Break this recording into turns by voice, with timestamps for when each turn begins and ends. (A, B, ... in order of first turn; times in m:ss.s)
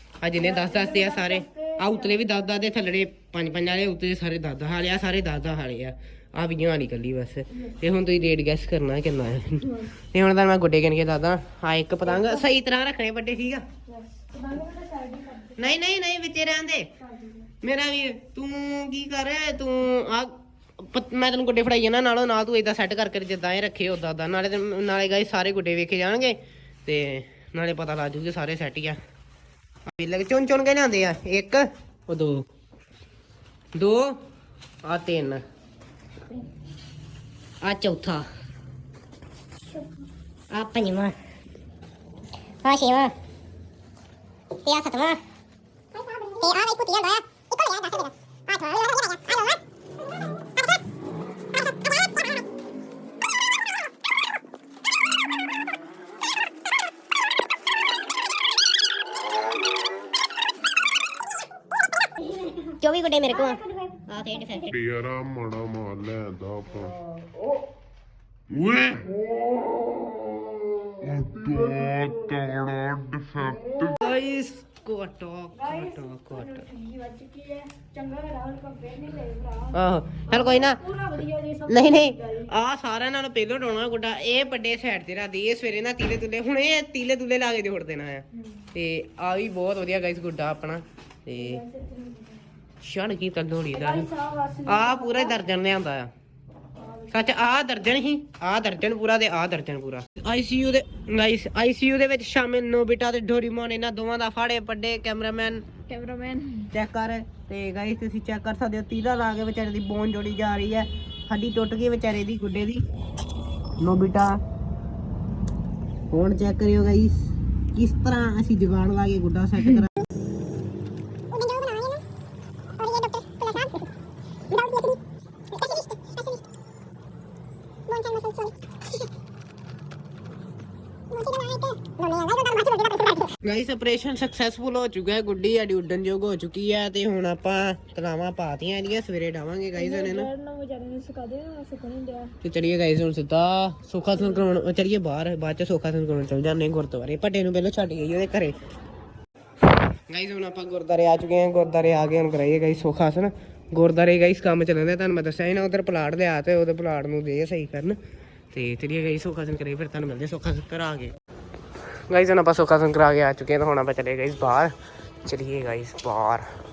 0:00.2-0:13.6 A
0:00.4-0:02.1 B
0:13.9-0:15.6 B
0:15.6-0:16.9 A
0:17.1-0:17.4 B
0:17.6-0:29.0 A
0:29.9-0:32.4 A
0:33.8-0:34.2 A
0:34.8-0:35.4 A
0:37.6-0:38.2 A
0:40.5-0:41.1 A
0:40.6-0:41.1 C
0:42.6-0:43.1 C
0:44.6-0:45.2 C
0:45.9-0:49.6 C
1:02.6-1:04.7 C
1:04.6-1:07.0 D
1:08.5-1:09.2 D
1:11.0-1:13.7 D
1:13.8-1:16.7 A
1:15.6-1:19.6 B
1:19.7-1:20.8 A
1:20.3-1:22.1 B
1:21.7-1:31.6 A
1:31.4-1:32.3 B
1:32.8-1:34.1 A
1:33.8-1:35.3 B
1:34.6-1:36.1 A
1:37.1-1:45.6 A
1:45.9-1:46.7 B
1:46.7-1:52.8 A
1:53.8-1:54.4 A
1:56.1-2:00.1 A
2:01.3-2:02.0 C
2:02.8-2:03.9 C
2:04.5-2:05.0 C
2:05.5-2:06.4 C
2:07.9-2:08.9 C
2:11.1-2:13.3 C
2:13.4-2:20.3 A
2:19.8-2:22.3 B
2:22.4-2:28.6 A
2:30.1-2:38.0 A
2:38.5-2:41.1 A
2:42.1-2:44.7 A
2:45.2-2:46.4 A